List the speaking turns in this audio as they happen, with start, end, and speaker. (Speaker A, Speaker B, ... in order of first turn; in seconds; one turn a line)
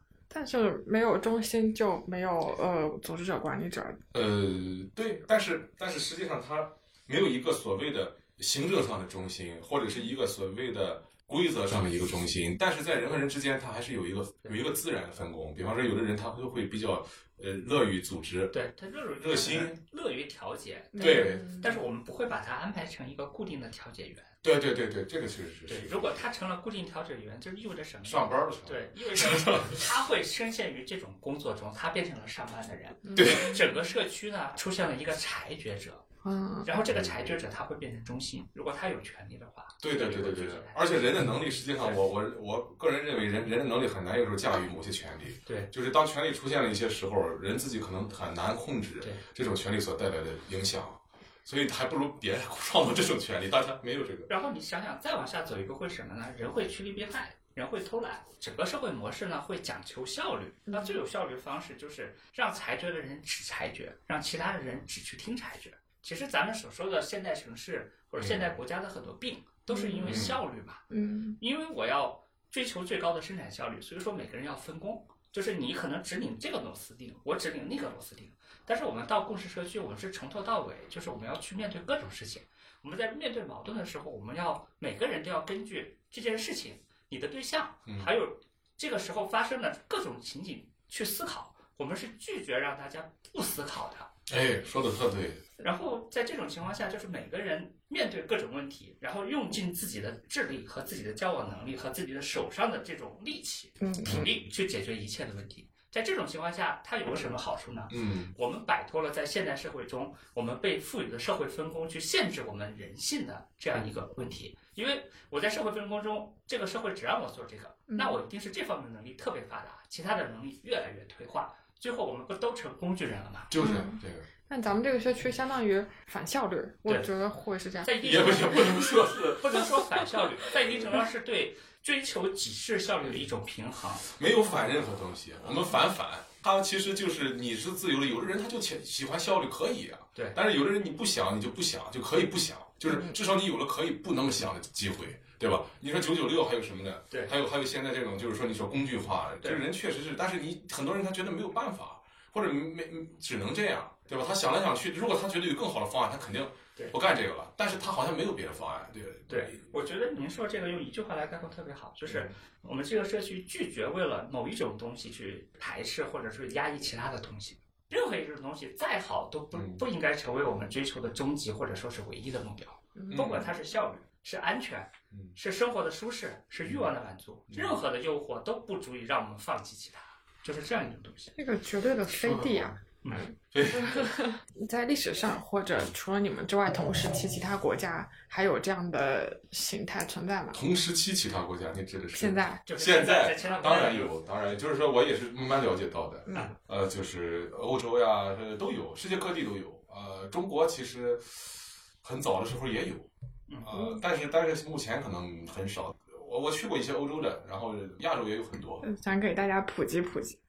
Speaker A: 0.3-4.0
Speaker B: 4.1-18.5
Speaker C: 18.5-24.3
Speaker B: 19.2-19.8
Speaker A: 20.9-21.8
Speaker B: 21.0-21.5
Speaker B: 24.4-26.1
Speaker C: 25.7-36.0
Speaker B: 28.0-29.9
Speaker A: 33.0-33.7
Speaker B: 33.1-33.5
Speaker A: 36.2-36.7
Speaker C: 36.6-41.1
Speaker B: 36.9-37.3
Speaker B: 39.8-54.3
Speaker C: 41.8-42.0
Speaker C: 45.5-45.7
Speaker C: 54.3-70.8
Speaker A: 60.7-61.0
Speaker B: 68.2-68.5
Speaker A: 69.7-70.3
Speaker B: 70.0-70.3
Speaker A: 70.9-71.4
Speaker C: 71.4-94.1
Speaker B: 87.8-88.1
Speaker B: 94.3-95.4
Speaker C: 95.6-123.5
Speaker A: 103.8-104.2
Speaker B: 107.9-108.3
Speaker A: 117.9-118.2
Speaker B: 123.5-124.2
Speaker A: 123.6-124.0
Speaker A: 124.5-128.5
Speaker C: 127.8-134.1
Speaker B: 128.0-130.1
Speaker B: 134.1-159.6
Speaker A: 142.8-143.2
Speaker C: 159.3-181.3
Speaker B: 162.1-162.3
Speaker B: 169.5-169.8
Speaker A: 172.9-173.4
Speaker B: 173.1-173.4
Speaker B: 175.1-175.3
Speaker B: 177.5-177.8
Speaker A: 181.3-190.6
Speaker B: 182.1-182.8
Speaker B: 183.5-184.4
Speaker B: 190.5-203.1
Speaker A: 192.1-192.6
Speaker C: 192.7-194.1
Speaker B: 203.6-208.8
Speaker A: 203.7-204.0
Speaker A: 208.8-210.4